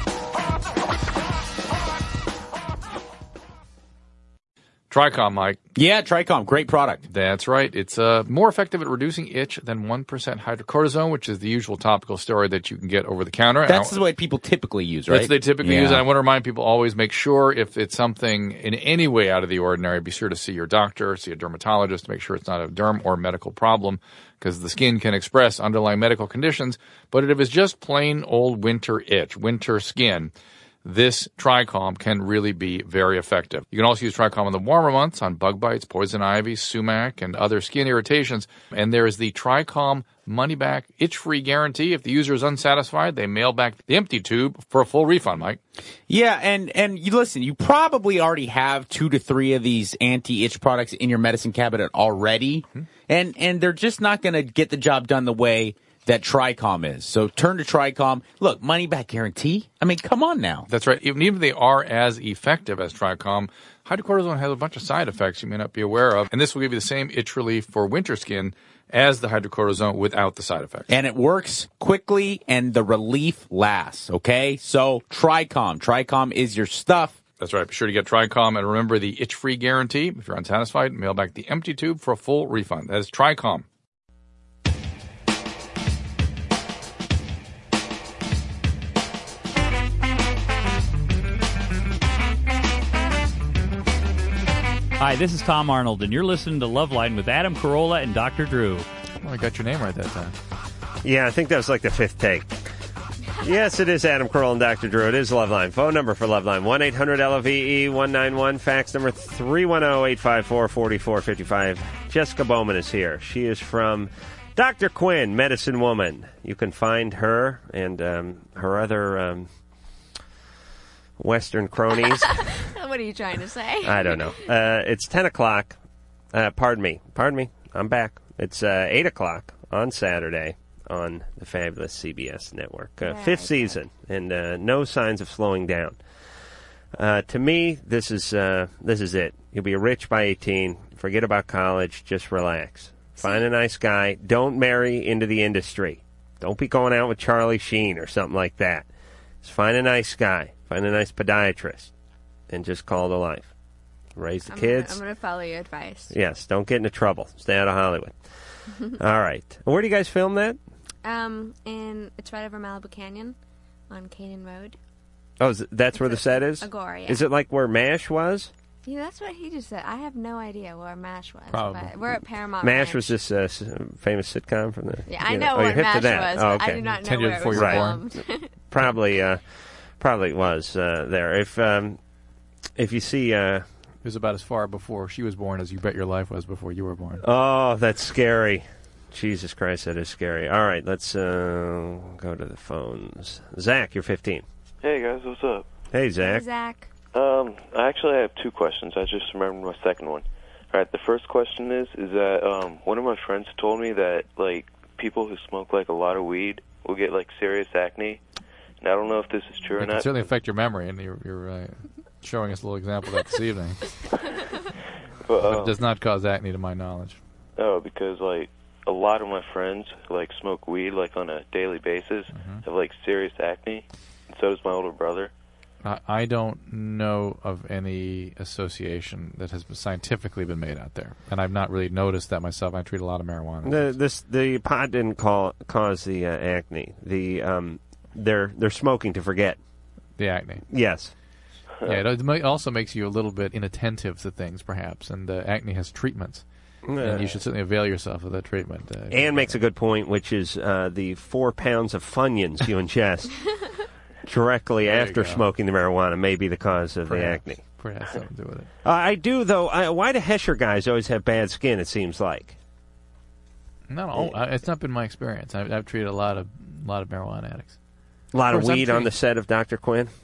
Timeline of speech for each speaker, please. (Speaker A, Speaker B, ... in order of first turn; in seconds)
Speaker A: 4.9-5.6, 7.1-14.0, 15.1-30.3, 30.8-45.6, 60.7-70.9, 77.4-83.6, 99.2-100.3, 171.5-171.9, 176.8-178.1, 184.0-187.2, 209.8-214.0, 215.4-217.2, 222.3-222.6, 225.8-233.9, 240.2-240.6, 241.8-246.4, 247.0-249.6, 254.8-255.4, 257.1-258.7, 263.9-267.8, 268.5-269.1
Speaker B: 5.8-7.0, 13.7-16.0, 46.1-60.7, 70.9-77.2
Speaker C: 95.0-98.8
Speaker D: 101.0-102.6, 103.4-119.5, 121.2-122.5, 123.8-125.8, 126.3-136.0, 136.9-148.9, 149.4-151.9, 152.5-153.5, 154.2-155.0, 156.1-158.2, 158.9-160.6, 165.4-168.5, 172.6-176.8, 177.5-177.9, 178.7-179.4, 180.0-182.0, 182.8-183.6, 187.2-194.4, 195.9-196.4, 233.6-239.6, 240.7-241.1, 246.8-247.3, 249.1-253.4, 254.2-257.6, 258.8-262.6, 268.3-270.1
Speaker E: 122.5-124.4, 133.0-133.8, 143.2-143.4, 154.5-156.1, 161.0-163.3, 163.9-164.8, 165.9-167.2, 168.8-173.2, 175.1-178.5, 196.2-196.9
Speaker F: 194.8-195.7, 197.1-208.2, 208.8-210.2, 215.2-215.7, 217.6-225.3